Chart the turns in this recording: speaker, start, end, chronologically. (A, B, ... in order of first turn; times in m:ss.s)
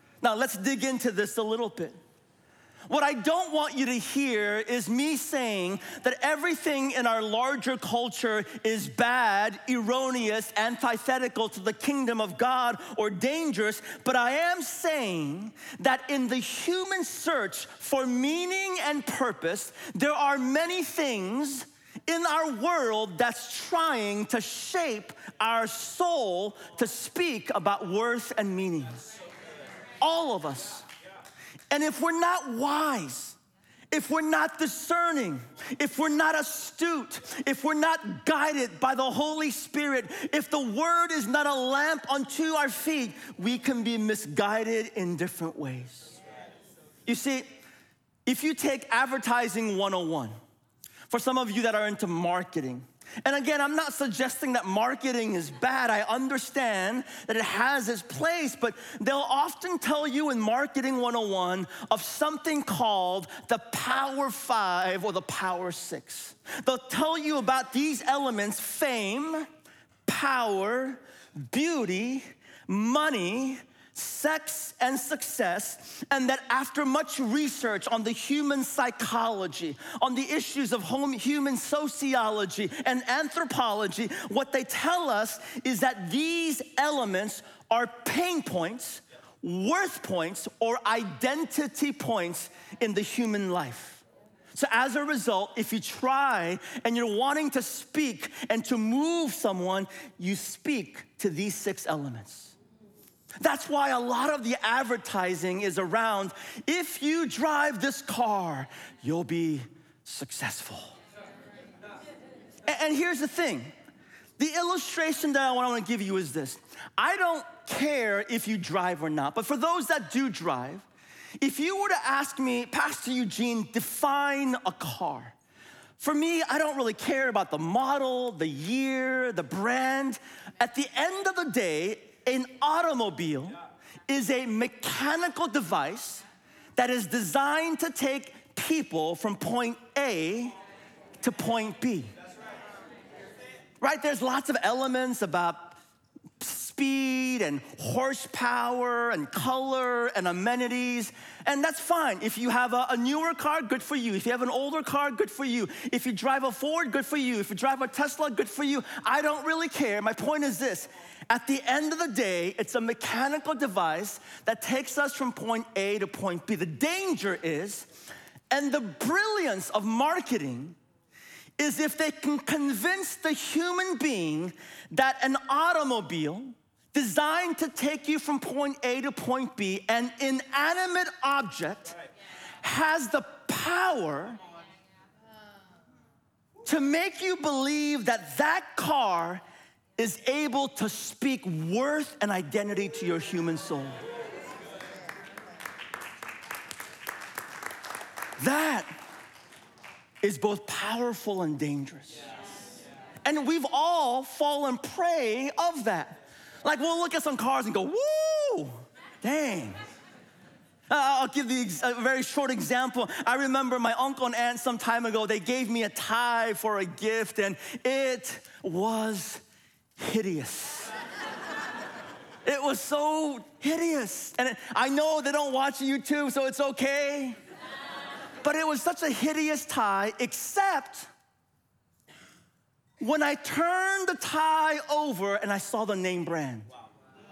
0:00.2-0:02.0 A
0:02.9-0:29.1 A
0:30.0-0:30.8 A
0:31.7-0:33.4 A
0:33.9-0:46.2 A
0:47.0-0:47.5 A
0:48.2-0:50.3 A
0:51.1-1:09.5 A
1:10.0-1:34.0 A
1:34.5-1:42.5 A
1:43.4-1:51.0 A
1:52.7-1:53.7 A
1:54.4-2:00.8 A
2:01.4-2:05.4 A
2:06.0-2:13.6 A
2:14.1-2:16.2 A
2:16.8-2:20.6 A
2:21.2-2:22.1 A
2:23.8-2:25.8 A
2:26.4-2:47.9 A
2:48.5-2:50.8 A
2:51.6-3:02.0 A
3:02.6-3:04.4 A
3:06.6-3:09.4 A
3:10.0-3:14.0 A
3:18.4-3:18.9 A
3:20.2-3:22.2 A
3:23.2-3:29.8 A
3:30.9-3:39.4 A
3:40.0-3:40.9 A
3:42.4-3:47.4 A
3:48.4-3:51.1 A
3:53.0-3:56.7 A